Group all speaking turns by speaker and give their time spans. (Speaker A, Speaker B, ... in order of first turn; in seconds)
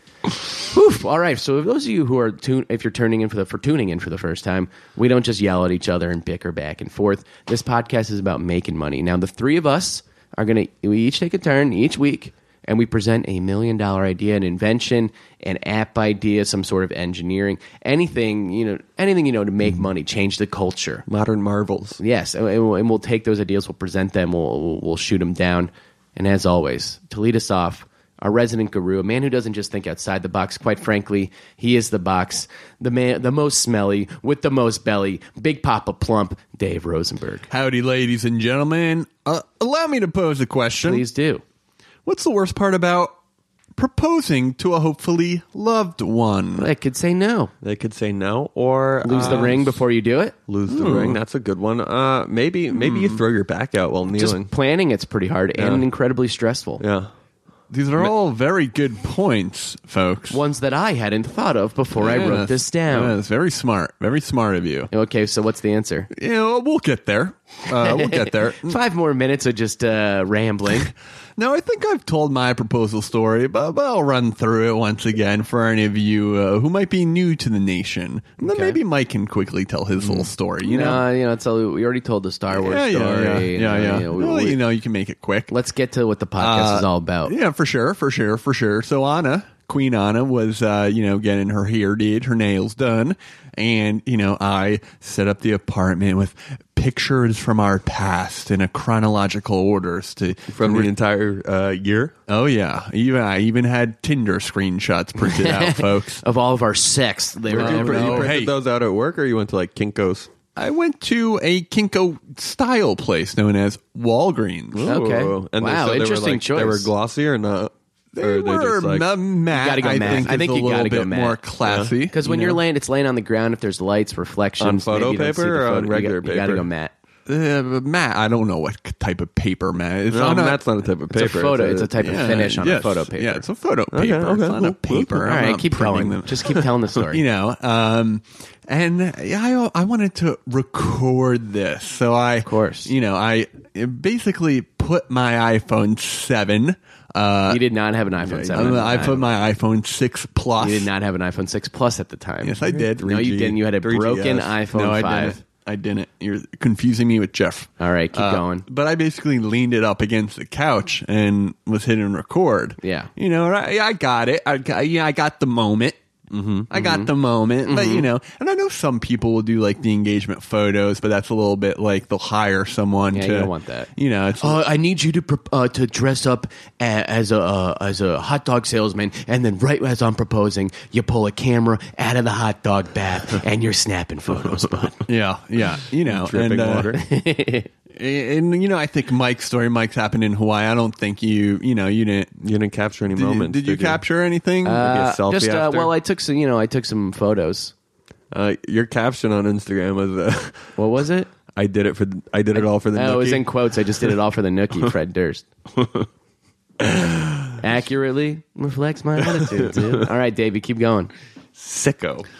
Speaker A: 0.4-21.0, 22.0-37.5, 40.8-41.4, 46.5-47.5, 49.0-51.1, 54.1-56.8, 60.3-63.1, 64.9-66.1, 67.8-70.9, 78.4-78.8, 80.6-84.6, 85.5-87.3, 105.2-108.3, 114.8-116.9, 119.5-121.4, 122.1-126.9, 131.1-133.4, 135.2-137.2, 142.4-142.9, 147.5-149.2, 150.6-155.4, 157.8-158.6, 162.8-163.1, 166.7-167.1, 167.6-168.1, 173.1-173.9, 174.4-185.0, 186.9-187.7, 194.6-197.7, 200.8-201.3, 202.5-205.4, 207.6-211.1
Speaker B: 21.1-22.0, 47.6-49.8, 50.5-54.5, 55.6-55.9, 56.8-57.1, 100.5-102.1, 107.5-110.3, 114.7-119.1, 121.6-121.9, 124.6-126.7, 130.1-131.9, 133.9-135.3, 152.6-154.6, 166.3-166.7, 186.1-187.0, 192.4-194.0, 194.7-195.9, 198.3-200.7, 201.5-203.5, 205.7-206.1, 206.8-207.5, 209.6-209.9, 211.5-212.3
Speaker C: 37.5-41.0, 42.0-43.1, 43.8-46.7, 49.1-49.5, 50.7-51.2, 52.7-53.2, 57.7-60.4, 62.0-64.9, 66.1-68.8, 71.4-81.0, 82.5-85.5, 86.4-100.9, 102.3-106.2, 107.5-108.5, 110.5-114.9, 118.1-122.6, 127.3-130.6, 132.0-136.6, 137.1-147.6, 148.2-150.9, 152.4-153.2, 154.7-166.0, 166.7-174.7, 185.1-187.0, 187.9-192.3, 193.1-194.9